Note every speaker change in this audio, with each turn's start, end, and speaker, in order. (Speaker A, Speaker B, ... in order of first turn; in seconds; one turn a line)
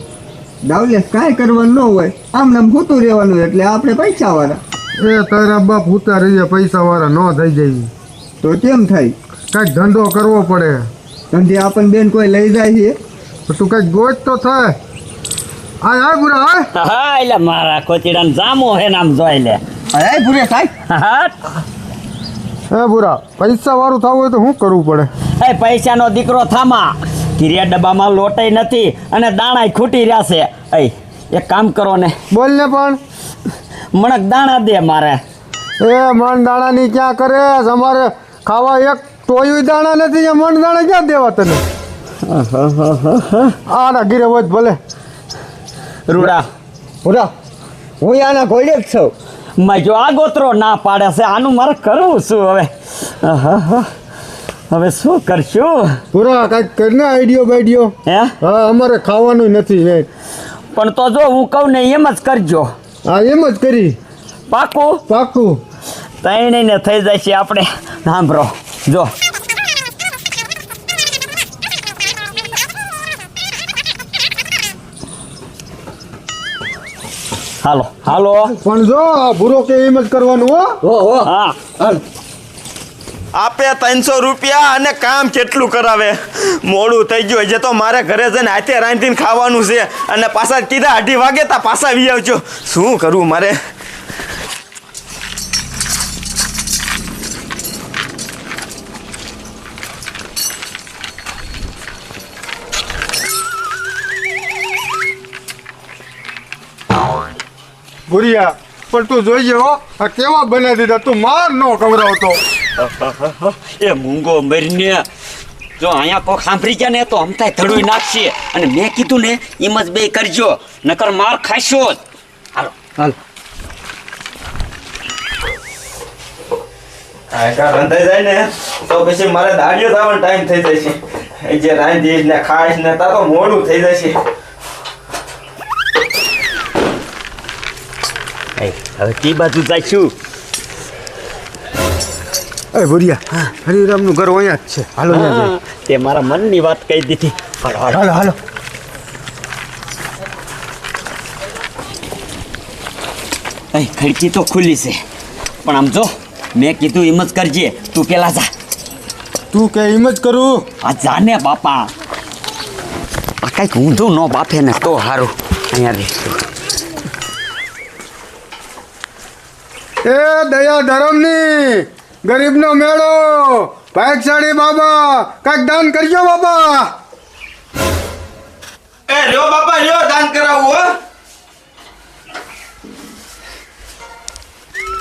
Speaker A: 0.6-4.6
Speaker B: 5.0-7.9
Speaker A: 8.4-9.1
Speaker B: 9.5-10.9
Speaker A: 11.3-13.0
Speaker B: 13.5-14.8
Speaker B: 15.8-16.7
Speaker C: 16.7-19.6
Speaker A: 19.9-20.7
Speaker C: 20.9-21.3
Speaker B: 22.7-25.1
Speaker C: 25.4-32.1
Speaker B: 32.3-33.0
Speaker C: 33.9-35.2
Speaker B: 35.8-41.6
Speaker C: 42.2-43.5
Speaker B: 43.7-44.8
Speaker C: 46.1-46.5
Speaker A: 47.0-47.3
Speaker A: 48.0-49.1
Speaker C: 49.6-53.9
Speaker C: 54.7-56.0
Speaker B: 56.1-60.1
Speaker C: 58.0-58.3
Speaker C: 60.7-62.7
Speaker B: 63.0-64.0
Speaker C: 64.5-65.0
Speaker B: 65.1-65.6
Speaker C: 66.2-69.1
Speaker C: 77.6-78.5
Speaker B: 78.6-80.8
Speaker A: 80.8-81.2
Speaker C: 81.2-81.6
Speaker D: 83.3-93.5
Speaker B: 108.1-112.4
Speaker C: 112.8-115.0
Speaker C: 115.8-122.0
Speaker C: 122.5-122.9
Speaker D: 127.3-134.2
Speaker C: 138.6-140.1
Speaker B: 142.7-145.5
Speaker C: 145.1-148.1
Speaker B: 147.9-148.3
Speaker C: 153.7-155.0
Speaker C: 155.6-158.5
Speaker B: 159.5-160.6
Speaker C: 160.8-161.9
Speaker C: 163.4-166.4
Speaker B: 170.0-176.9
Speaker D: 179.1-180.9